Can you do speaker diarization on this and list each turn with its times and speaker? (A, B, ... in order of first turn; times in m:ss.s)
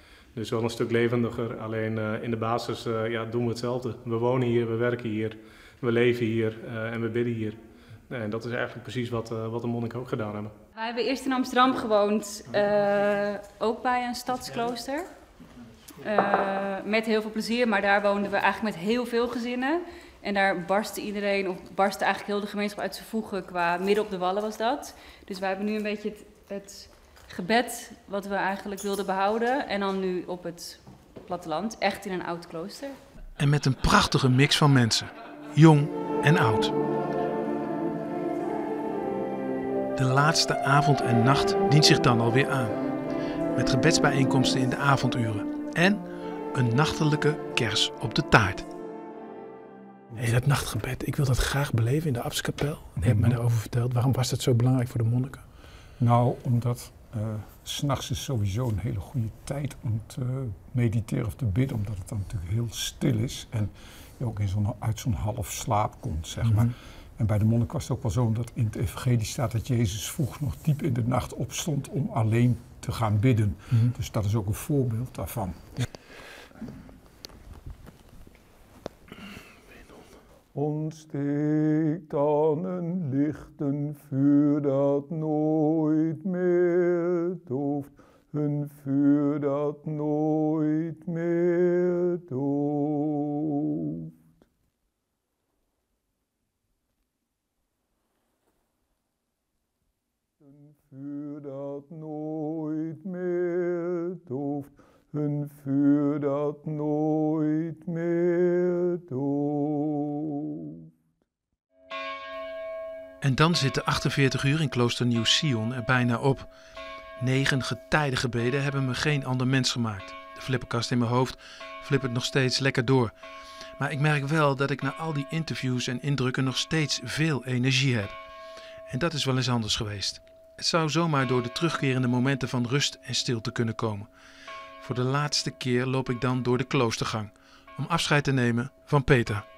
0:00.3-0:10.5 A
0:10.7-0:15.1 B
0:16.0-0:33.0 B
0:33.4-0:36.7 C
0:40.0-0:42.8 C
0:43.5-0:48.7 C
0:50.2-0:55.4 D
0:53.0-0:53.4 E
0:56.0-1:15.7 E
1:06.4-1:06.7 D
1:20.5-1:34.1 E
1:40.4-1:50.9 E
1:53.2-1:56.5 C
1:57.2-2:03.1 C
2:03.8-2:08.2 C
2:08.9-2:14.1 C
2:14.8-2:19.4 C